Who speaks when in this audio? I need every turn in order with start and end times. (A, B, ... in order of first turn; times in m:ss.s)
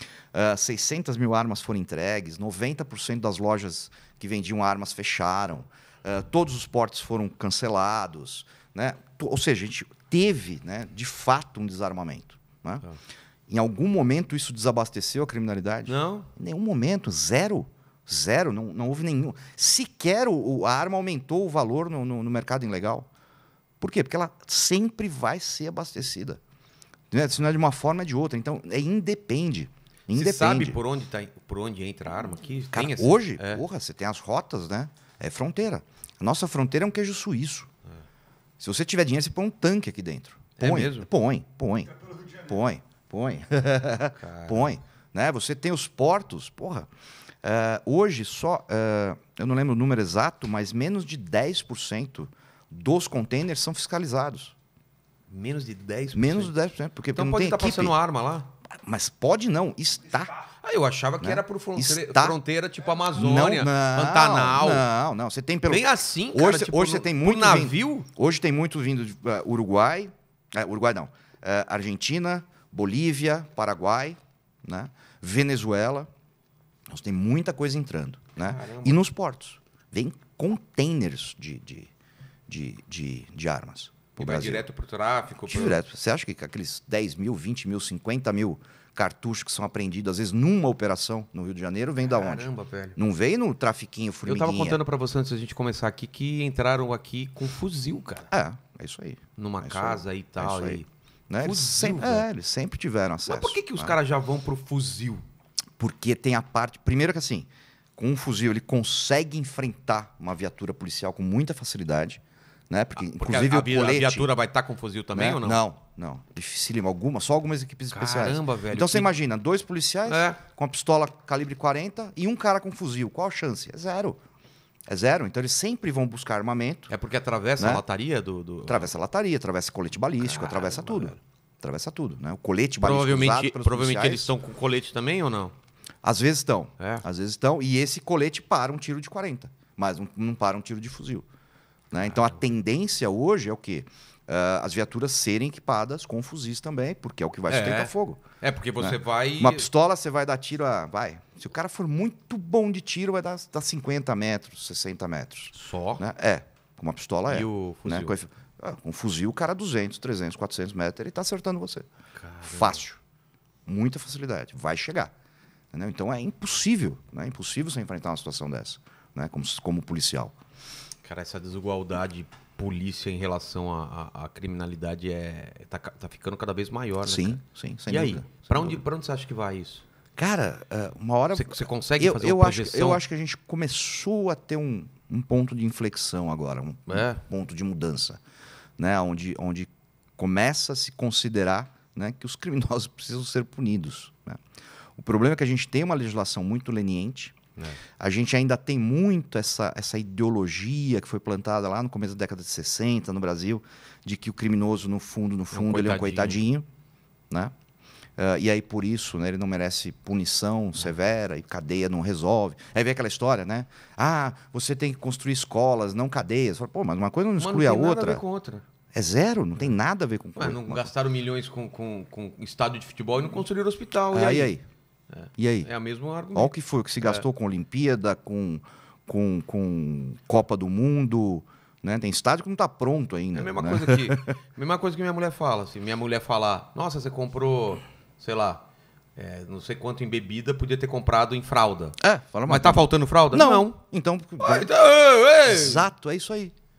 0:00.3-0:12.9 A
0:13.5-0:23.1 A
0:15.9-0:16.3 B
0:23.8-0:26.4 A
0:27.1-0:30.8 A
0:30.1-0:33.6 B
0:32.3-0:37.7 A
0:38.6-0:46.9 A
0:40.6-0:41.1 B
0:44.2-0:44.8 B
0:47.4-0:54.6 A
0:55.3-0:56.5 B
0:56.1-0:58.0 A
0:57.1-0:58.5 B
0:58.8-1:00.4 A
1:00.6-1:04.9 B
1:01.2-1:02.4 A
1:03.1-1:16.1 A
1:05.7-1:08.1 B
1:16.9-1:21.9 A
1:18.4-1:19.1 B
1:22.5-1:24.7 A
1:24.2-1:25.8 B
1:25.4-1:34.8 A
1:32.0-1:33.0 B
1:34.2-1:38.3 B
1:38.3-1:44.0 A
1:39.4-1:40.9 B
1:41.4-1:42.3 B
1:43.3-1:45.2 B
1:45.8-1:54.3 A
1:53.0-1:55.6 B
1:55.1-2:04.2 A
1:57.9-1:59.1 B
2:00.1-2:00.4 B
2:04.9-2:06.9 A
2:06.9-2:08.9 B
2:08.7-2:14.3 A
2:10.2-2:11.2 B
2:12.8-2:15.5 B
2:16.0-2:21.3 A
2:16.8-2:17.0 B
2:21.9-2:28.2 A
2:27.5-2:29.7 B
2:28.8-2:41.9 A
2:35.5-2:36.0 B
2:37.3-2:38.2 B
2:42.2-2:42.8 B
2:42.4-2:43.0 A
2:43.7-2:45.1 A
2:45.7-2:50.3 A
2:51.0-2:59.8 B
2:57.0-2:58.8 A
3:00.2-3:08.2 A
3:01.3-3:03.0 B
3:06.9-3:07.2 B
3:08.8-3:14.4 A
3:15.0-3:17.4 A
3:18.0-3:26.7 A
3:25.5-3:26.4 B
3:28.2-3:38.2 A
3:37.4-3:38.6 B
3:38.9-3:40.9 A
3:40.4-3:44.5 B
3:44.1-3:44.6 A
3:45.1-3:47.2 B
3:45.4-3:45.7 A
3:46.3-3:54.3 A
3:53.3-4:03.8 B
4:02.0-4:04.7 A
4:04.4-4:05.9 B
4:05.4-4:06.5 A